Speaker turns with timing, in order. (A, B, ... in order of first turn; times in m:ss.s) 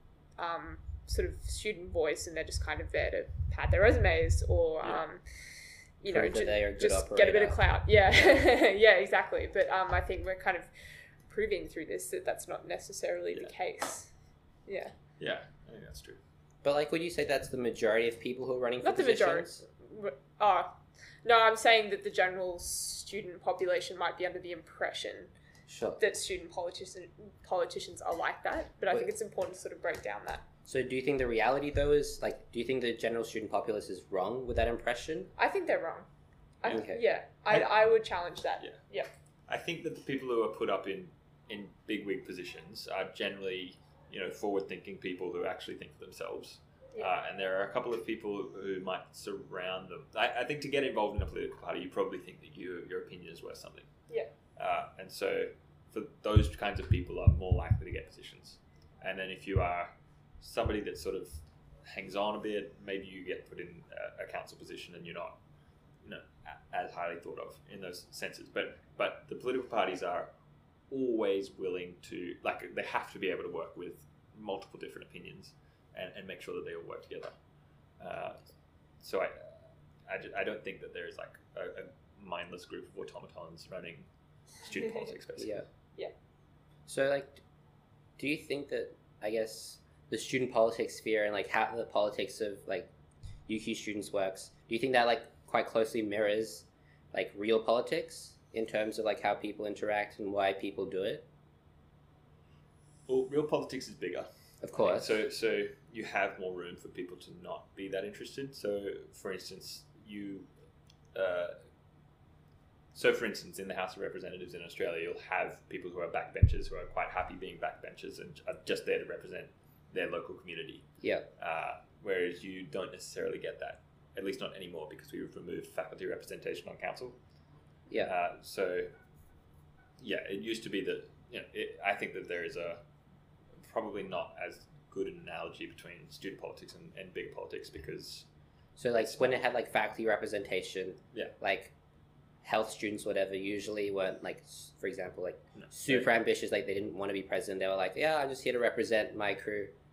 0:00.4-0:05.2 A
0:06.0-0:10.7 A
0:06.1-0:08.4 B
0:11.2-0:14.1 A
0:14.7-0:14.9 A
0:15.2-0:16.2 C
0:16.6-0:19.6 B
0:18.8-0:25.3 A
0:25.7-0:26.0 B
0:26.0-0:30.4 A
0:30.7-0:35.3 B
0:35.4-0:36.1 A
0:36.6-0:39.1 A
0:36.7-0:37.0 B
0:37.5-0:37.9 C
0:39.5-0:53.9 C
0:54.6-1:05.4 C
1:06.0-1:10.3 C
1:10.9-1:17.4 C
1:18.0-1:18.4 C
1:19.0-1:24.1 C
1:24.6-1:25.6 C
1:25.4-1:25.6 B
1:26.9-1:27.4 B
1:28.2-1:32.9 B
1:33.5-1:41.2 B
1:43.1-1:50.5 C
1:44.6-1:45.2 B
1:51.1-1:51.6 C
1:52.9-2:00.9 C
2:01.0-2:01.3 B
2:01.4-2:07.2 C
2:08.0-2:08.9 C
2:10.0-2:12.8 C
2:13.6-2:18.3 C
2:18.8-2:21.7 B
2:22.4-2:29.7 B
2:25.6-2:26.1 C